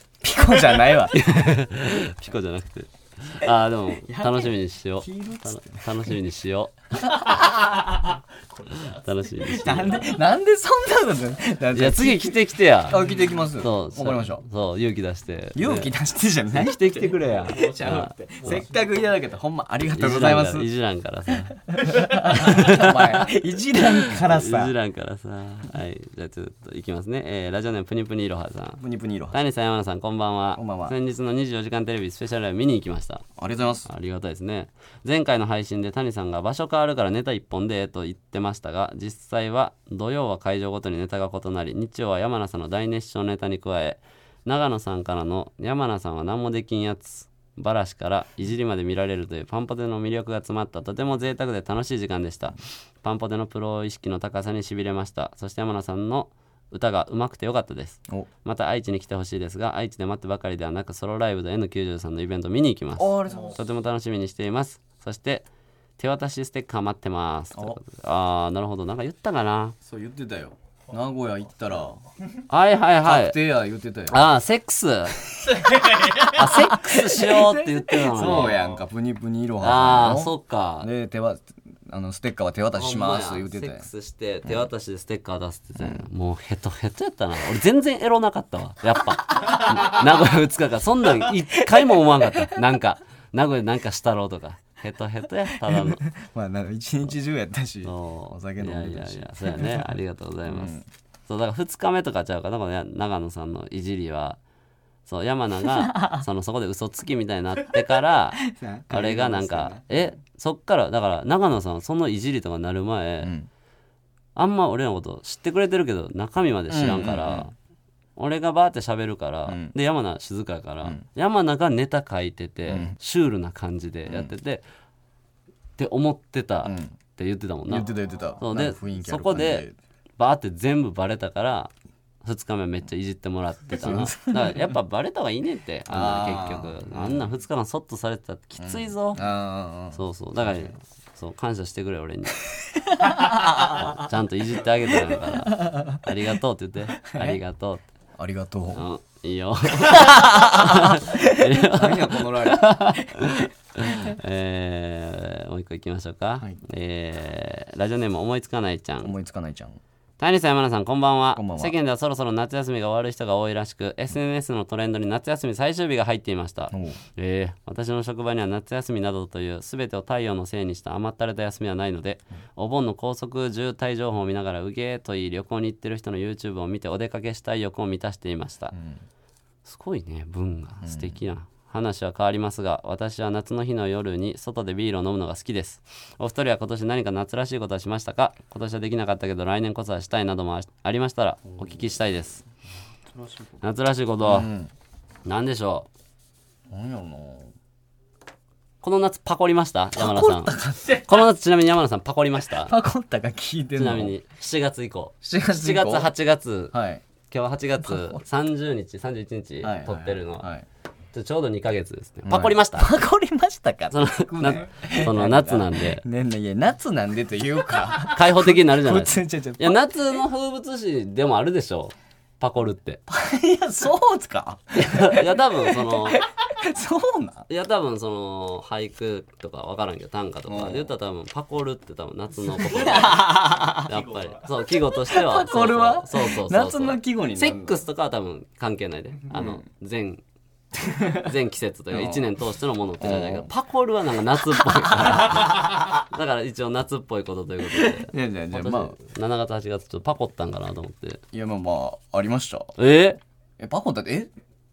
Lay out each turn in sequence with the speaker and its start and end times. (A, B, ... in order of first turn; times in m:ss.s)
0:00.2-0:01.2 A
0:01.1-0:07.3 B
0:04.0-0:06.1 A
0:07.0-0:07.9 A
0:08.7-0:10.2 B
0:09.4-0:14.4 A
0:11.7-0:15.9 B
0:15.5-0:20.7 A
0:16.5-0:18.6 B
0:19.8-0:33.2 B
0:21.3-0:24.7 A
0:28.8-0:29.4 A
0:30.6-0:31.0 A
0:33.4-0:33.9 A
0:33.8-1:05.5 B
1:03.0-1:03.6 A
1:06.0-1:09.8 B
1:09.8-1:12.1 A
1:12.5-1:13.4 B
1:13.0-1:14.2 A
1:14.1-1:15.2 B
1:15.4-1:23.9 A
1:15.8-1:18.6 B
1:19.6-1:20.9 B
1:22.8-1:36.0 B
1:25.8-1:26.1 A
1:29.7-1:30.0 A
1:35.6-1:39.9 A
1:37.8-1:40.7 B
1:40.5-1:40.9 A
1:41.3-1:44.4 B
1:45.0-1:53.3 B
1:45.8-1:46.2 A
1:48.4-1:50.1 A
1:53.2-1:53.5 A
1:54.4-1:57.5 B
1:56.7-1:57.5 A
1:58.2-2:04.6 B
1:59.5-1:59.7 A
2:02.7-2:03.0 A
2:04.1-2:04.3 A
2:05.8-2:07.9 B
2:06.6-2:06.9 A
2:07.7-2:09.7 A
2:08.4-2:09.6 B
2:10.2-2:11.7 B
2:12.2-2:19.2 B
2:13.7-2:14.6 A
2:15.9-2:17.2 A
2:18.6-2:20.7 A
2:19.9-2:22.4 B
2:22.9-2:24.0 A
2:23.6-2:27.8 B
2:27.0-2:27.4 A
2:28.2-2:28.8 A
2:28.7-2:39.1 B
2:29.9-2:34.1 A
2:39.0-2:39.8 A
2:40.2-2:58.8 B
2:41.3-2:41.7 A
2:46.7-2:47.0 A
2:58.7-2:59.0 A
2:59.6-3:12.4 B
3:00.8-3:01.2 A
3:11.5-3:11.8 A
3:13.1-3:13.6 A
3:13.6-3:14.5 B
3:14.2-3:14.7 A
3:15.2-3:15.9 B
3:16.7-3:17.5 A
3:18.8-3:22.7 B
3:20.0-3:21.2 A
3:22.5-3:24.1 A
3:23.8-3:26.7 B
3:25.2-3:26.1 A
3:26.7-3:27.0 A
3:27.3-3:30.5 B
3:27.8-3:28.2 A
3:29.6-3:30.6 A
3:31.1-3:32.9 B
3:32.2-3:40.2 A
3:33.9-3:36.0 B
3:38.1-3:43.0 B
3:43.1-3:47.4 A
3:44.8-3:46.2 B
3:47.5-4:00.2 B
3:50.4-3:50.9 A
3:52.5-3:54.0 A
3:55.0-3:57.8 A
3:59.3-3:59.6 A
4:00.8-4:01.2 A
4:01.1-4:11.2 B
4:01.9-4:02.3 A
4:03.0-4:03.5 A
4:04.8-4:05.7 A
4:07.7-4:09.0 A
4:11.3-4:12.7 A
4:12.8-4:13.2 B
4:13.6-4:14.3 A